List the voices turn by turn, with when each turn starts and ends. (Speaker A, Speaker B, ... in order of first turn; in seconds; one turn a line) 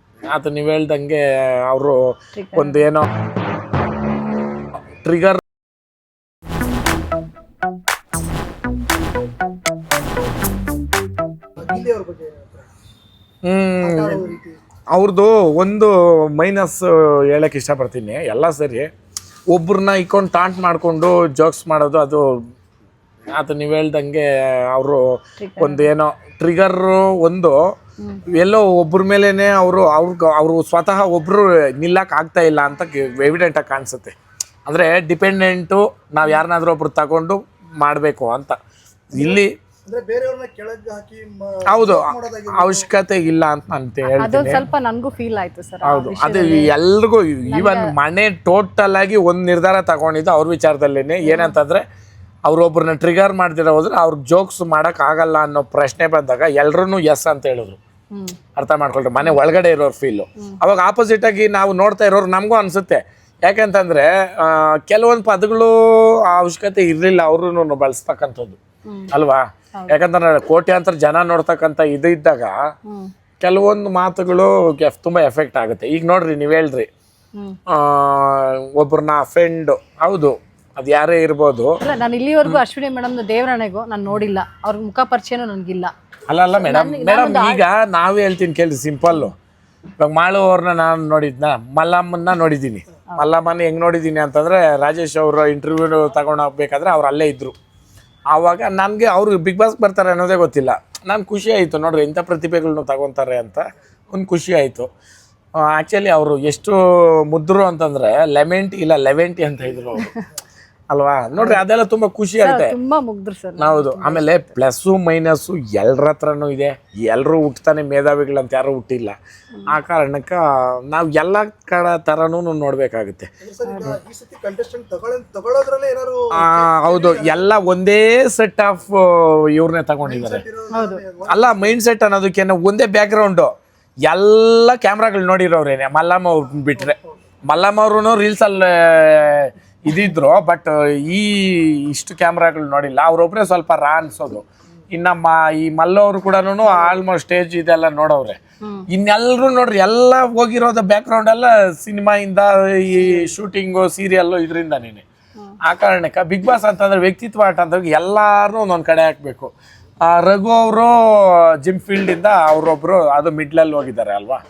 Speaker A: 0.3-3.1
Speaker B: 2.4-2.8
Speaker A: 5.0-5.4
Speaker C: 11.6-12.7
Speaker A: 13.4-14.3
Speaker C: 13.8-14.6
Speaker A: 14.9-18.9
Speaker A: 19.5-22.3
Speaker A: 23.4-27.6
Speaker B: 25.4-25.9
Speaker A: 28.3-34.1
Speaker A: 34.7-38.6
Speaker A: 39.1-39.5
Speaker C: 39.2-42.9
Speaker A: 41.7-44.6
Speaker B: 44.1-46.7
Speaker A: 45.8-51.8
Speaker B: 47.5-47.9
Speaker B: 51.2-51.6
Speaker A: 52.5-57.8
Speaker B: 58.1-58.4
Speaker A: 58.6-68.6
Speaker B: 68.9-69.1
Speaker A: 69.1-72.5
Speaker A: 73.4-76.9
Speaker A: 77.7-81.8
Speaker B: 81.8-85.9
Speaker A: 86.3-89.3
Speaker B: 86.5-87.6
Speaker A: 90.0-97.5
Speaker A: 98.3-104.9
Speaker A: 105.6-110.1
Speaker A: 110.9-112.8
Speaker B: 111.4-111.6
Speaker B: 112.4-114.5
Speaker A: 113.6-123.3
Speaker C: 123.4-127.4
Speaker B: 123.7-124.0
Speaker A: 126.3-130.4
Speaker C: 130.1-131.8
Speaker B: 130.7-131.0
Speaker A: 131.3-133.5
Speaker A: 134.1-137.0
Speaker C: 136.8-137.2
Speaker A: 137.5-148.4
Speaker B: 148.6-148.9
Speaker A: 148.9-155.1
Speaker A: 155.6-159.5
Speaker A: 160.0-164.4